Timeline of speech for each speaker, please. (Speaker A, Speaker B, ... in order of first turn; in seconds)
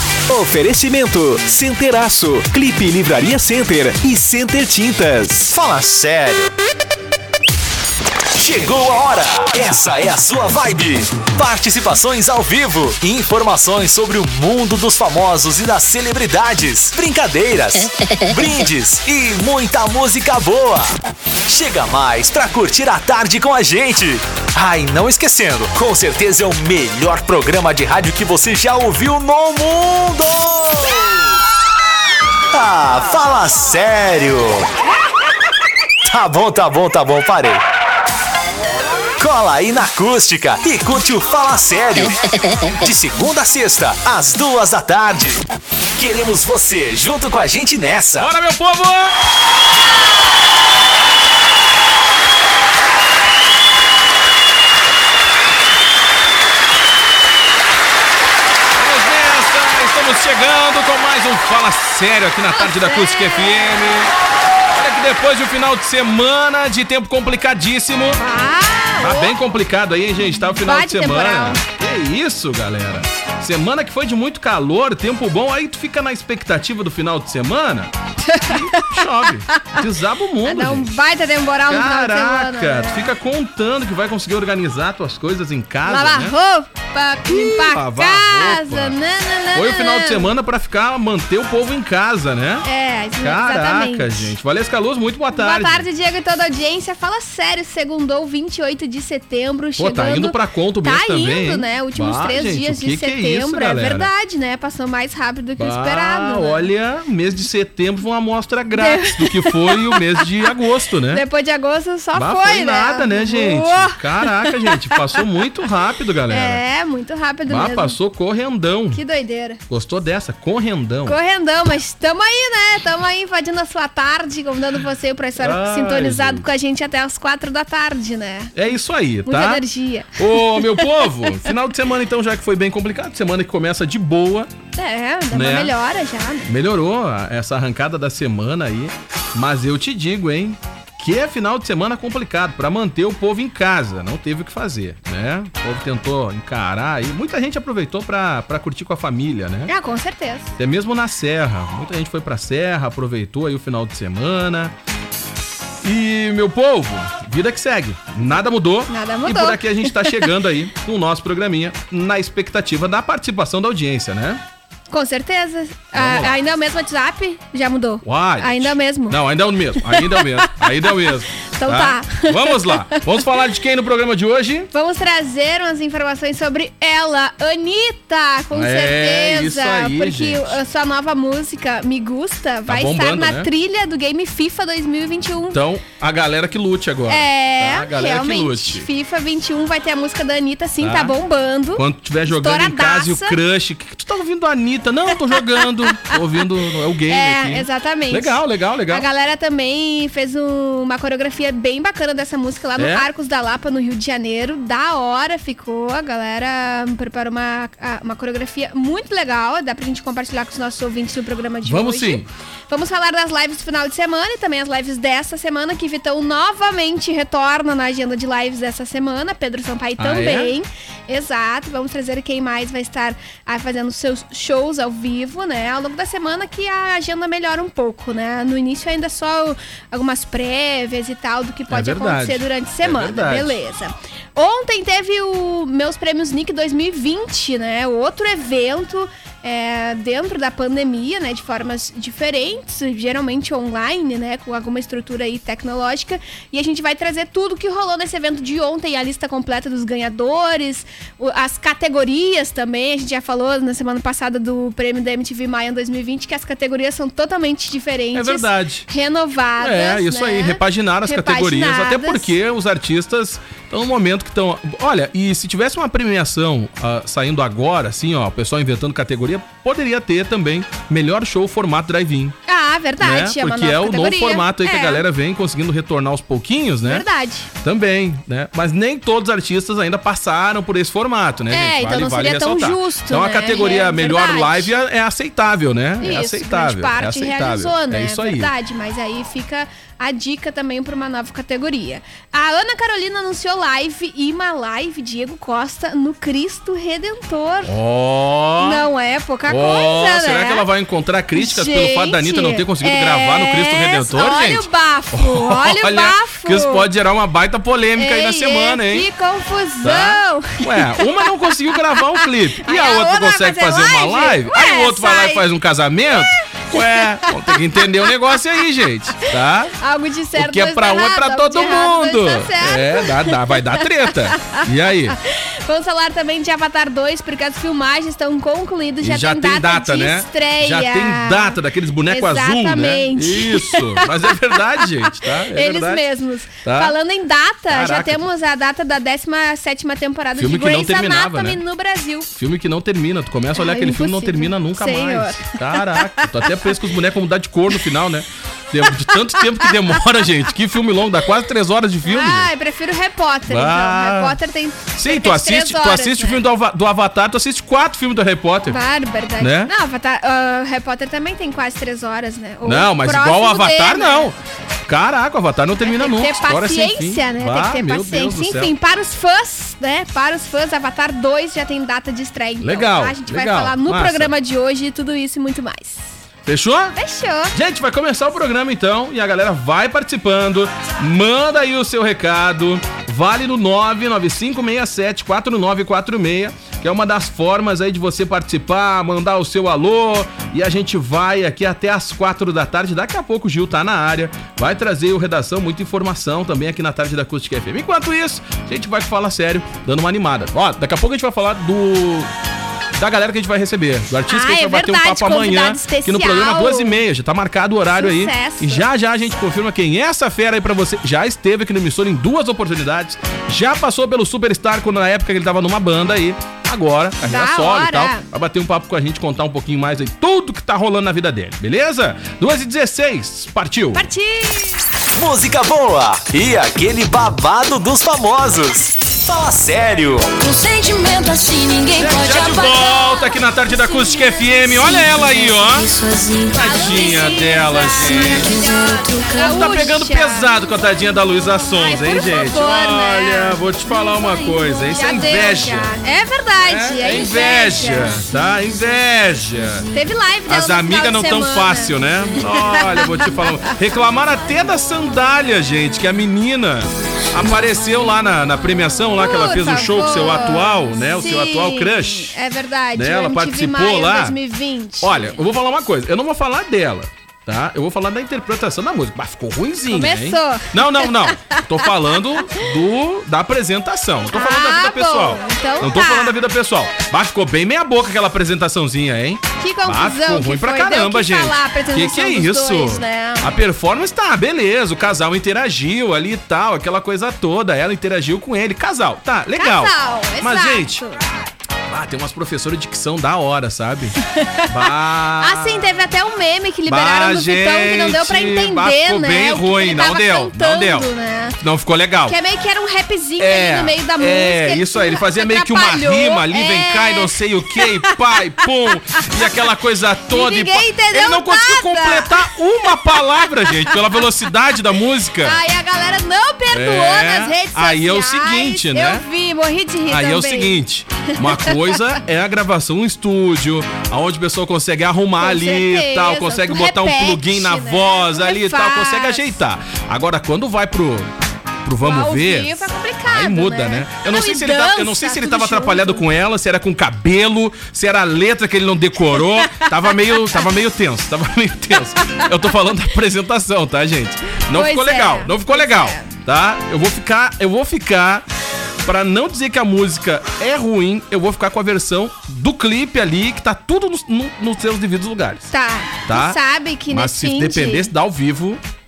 Speaker A: 0.3-5.5
Speaker B: 5.5-6.5, 8.3-20.9, 21.5-31.1, 32.5-34.7, 36.1-37.6, 39.2-45.4, 46.0-48.3, 425.2-430.3
Speaker C: 48.2-49.1, 58.8-64.1, 64.7-68.2, 69.0-80.9, 81.7-86.3, 87.3-89.0, 89.5-92.7, 93.2-95.9, 99.8-104.1, 105.6-111.2, 112.2-116.6, 117.5-119.0, 119.7-121.2, 125.4-126.5, 128.6-129.6, 130.2-134.5, 135.3-135.8, 136.5-149.7, 150.6-154.7, 155.8-164.4, 165.9-166.4, 168.0-174.7, 178.5-180.6, 182.7-183.5, 185.5-188.9, 190.8-191.2, 191.8-199.1, 202.8-203.1, 211.6-212.3, 220.0-220.5, 231.7-233.6, 258.1-258.9, 259.6-272.4, 273.0-288.5, 297.6-298.9, 299.5-309.1, 309.8-319.8, 320.4-325.2, 329.0-336.1, 336.6-337.0, 337.7-338.3, 340.4-341.6, 342.4-352.5, 353.5-354.4, 354.9-358.8, 359.4-359.7, 362.6-368.7, 372.6-374.3, 376.5-377.0, 377.5-402.3, 403.0-424.1, 431.9-435.9, 436.5-438.6, 439.4-445.9, 446.6-449.9, 450.5-462.4, 462.9-464.4, 465.0-491.0, 491.9-494.2, 494.7-495.9, 496.9-502.4, 503.4-515.6, 516.7-519.2, 520.1-531.3, 531.8-548.5, 549.0-555.7, 556.3-558.8
Speaker D: 62.5-63.9, 68.2-69.3, 70.5-71.6, 78.2-79.8, 80.4-83.1, 85.8-90.3, 92.6-94.3, 95.3-106.7, 108.7-110.5, 111.1-115.2, 116.3-118.0, 118.9-119.6, 121.1-128.6, 129.2-131.5, 134.8-136.5, 149.7-150.6, 158.9-160.3, 164.9-169.2, 169.8-173.1, 174.7-185.6, 187.1-193.4, 195.3-196.2, 197.1-262.3, 272.5-275.0, 276.8-277.5, 281.5-284.7, 286.0-297.8, 298.6-300.7, 301.4-306.9, 308.0-315.5, 316.2-317.7, 319.2-342.3, 343.6-346.7, 348.9-350.0, 352.0-356.4, 358.7-364.3, 365.8-376.1, 376.9-377.5, 404.3-407.0, 407.9-408.9, 417.2-418.3, 423.9-424.8, 432.9-434.7, 436.6-440.6, 441.7-448.3, 449.9-453.4, 459.1-465.4, 469.9-471.9, 474.3-476.4, 479.6-483.5, 489.6-491.2, 494.2-501.6, 502.3-509.4, 510.3-514.2, 515.4-522.1, 525.4-529.6, 532.0-536.3, 539.3-540.6, 542.2-542.5, 544.7-546.4, 555.7-558.1
Speaker E: 430.4-433.0, 434.7-439.7